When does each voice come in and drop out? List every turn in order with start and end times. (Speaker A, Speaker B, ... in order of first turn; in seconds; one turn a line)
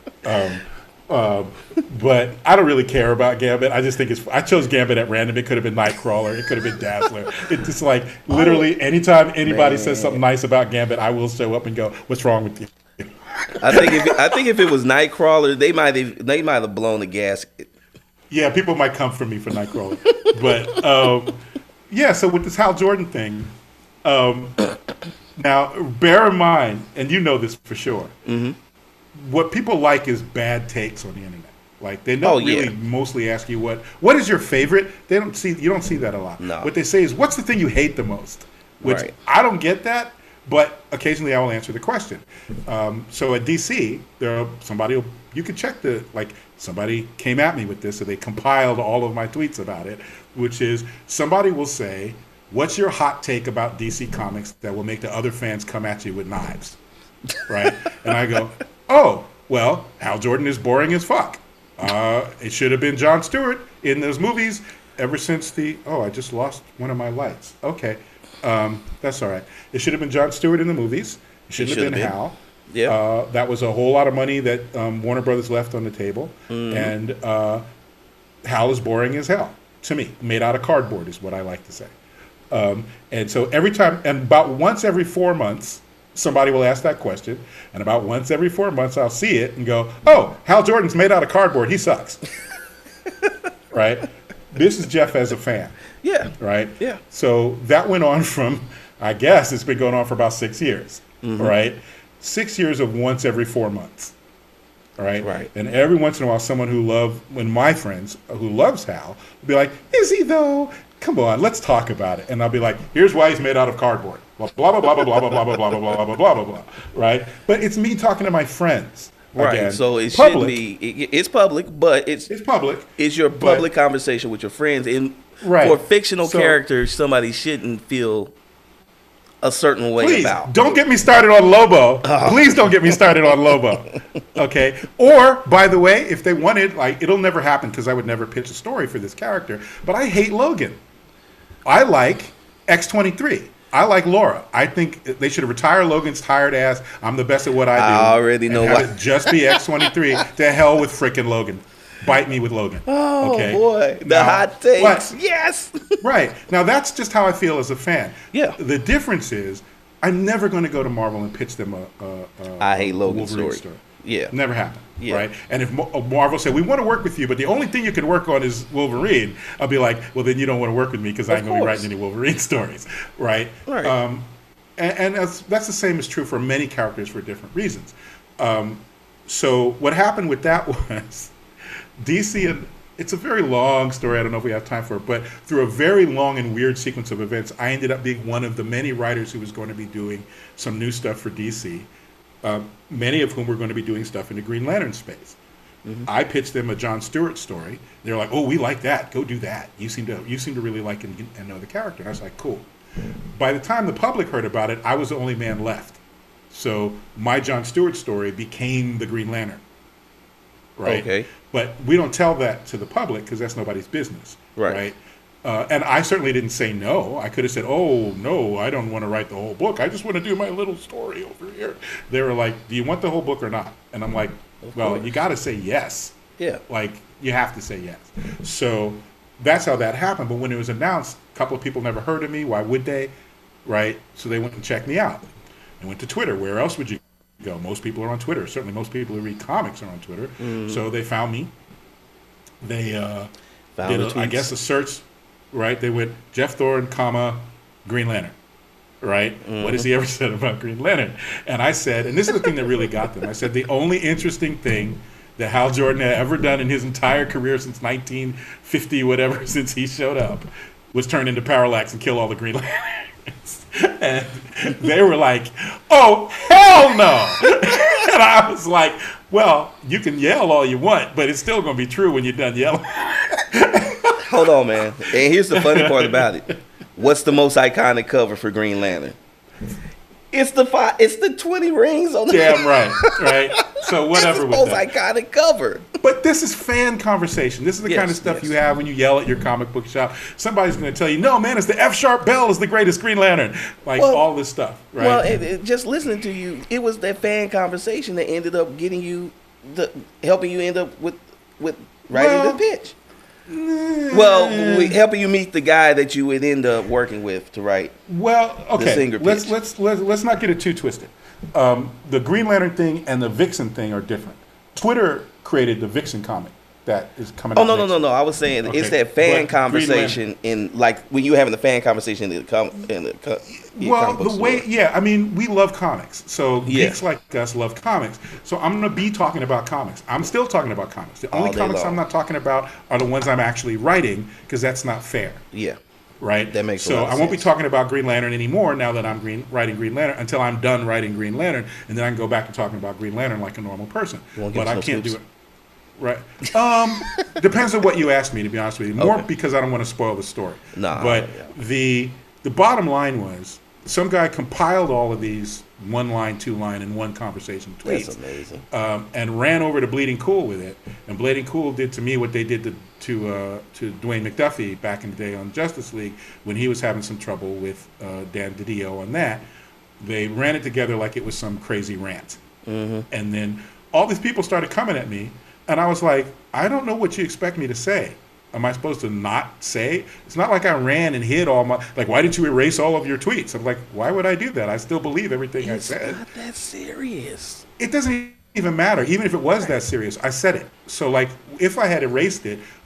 Speaker A: 0.2-14.4
Speaker B: 8.3-8.7
Speaker B: 9.4-10.2
Speaker B: 13.6-17.7
Speaker A: 18.3-24.6
Speaker B: 20.0-20.7
Speaker A: 25.4-28.1
Speaker B: 28.2-28.6
Speaker A: 29.1-56.8
Speaker B: 32.2-32.7
Speaker B: 36.4-36.7
Speaker B: 38.8-39.1
Speaker A: 57.5-77.6
Speaker B: 71.5-72.2
Speaker B: 72.7-73.0
Speaker B: 76.5-76.9
Speaker A: 78.4-81.9
Speaker A: 82.5-92.2
Speaker A: 93.7-95.7
Speaker B: 96.0-97.0
Speaker A: 96.4-104.1
Speaker B: 101.2-101.5
Speaker A: 105.0-120.6
Speaker B: 105.2-105.5
Speaker B: 119.3-122.3
Speaker A: 122.3-123.7
Speaker B: 123.0-128.3
Speaker A: 125.4-126.6
Speaker B: 129.4-130.8
Speaker A: 130.0-140.8
Speaker B: 132.0-134.0
Speaker A: 141.6-155.2
Speaker B: 147.7-150.2
Speaker B: 152.8-156.0
Speaker A: 156.0-181.3
Speaker B: 162.6-164.3
Speaker B: 165.0-165.2
Speaker B: 171.3-171.9
Speaker B: 173.7-174.0
Speaker A: 182.0-191.9
Speaker A: 192.4-195.4
Speaker A: 196.1-202.7
Speaker A: 203.3-209.6
Speaker A: 210.8-226.2
Speaker B: 210.8-211.3
Speaker B: 214.6-214.8
Speaker B: 224.6-225.1
Speaker A: 226.7-233.1
Speaker A: 233.6-235.3
Speaker A: 235.8-241.5
Speaker B: 240.4-240.8
Speaker A: 242.6-243.3
Speaker B: 243.8-244.5
Speaker A: 243.8-248.3
Speaker A: 249.0-274.6
Speaker B: 249.4-249.9
Speaker B: 274.2-279.2
Speaker A: 275.5-276.5
Speaker B: 280.3-285.9
Speaker A: 282.3-284.9
Speaker A: 286.0-295.4
Speaker B: 287.8-288.5
Speaker B: 294.0-294.2
Speaker B: 295.0-302.9
Speaker A: 302.1-302.6
Speaker A: 303.5-305.0
Speaker B: 304.1-307.9
Speaker A: 308.1-318.0
Speaker B: 308.7-309.5
Speaker B: 317.6-324.6
Speaker A: 318.6-320.2
Speaker A: 323.6-335.4
Speaker B: 326.6-327.0
Speaker B: 331.3-332.0
Speaker B: 335.5-335.8
Speaker A: 336.2-345.2
Speaker B: 336.5-337.5
Speaker B: 344.4-345.2
Speaker A: 346.0-358.2
Speaker B: 349.0-349.2
Speaker B: 350.7-351.5
Speaker B: 357.8-358.6
Speaker A: 358.7-369.5
Speaker A: 370.0-372.4
Speaker B: 372.6-373.1
Speaker A: 373.1-386.2
Speaker B: 385.6-387.6
Speaker A: 387.8-392.6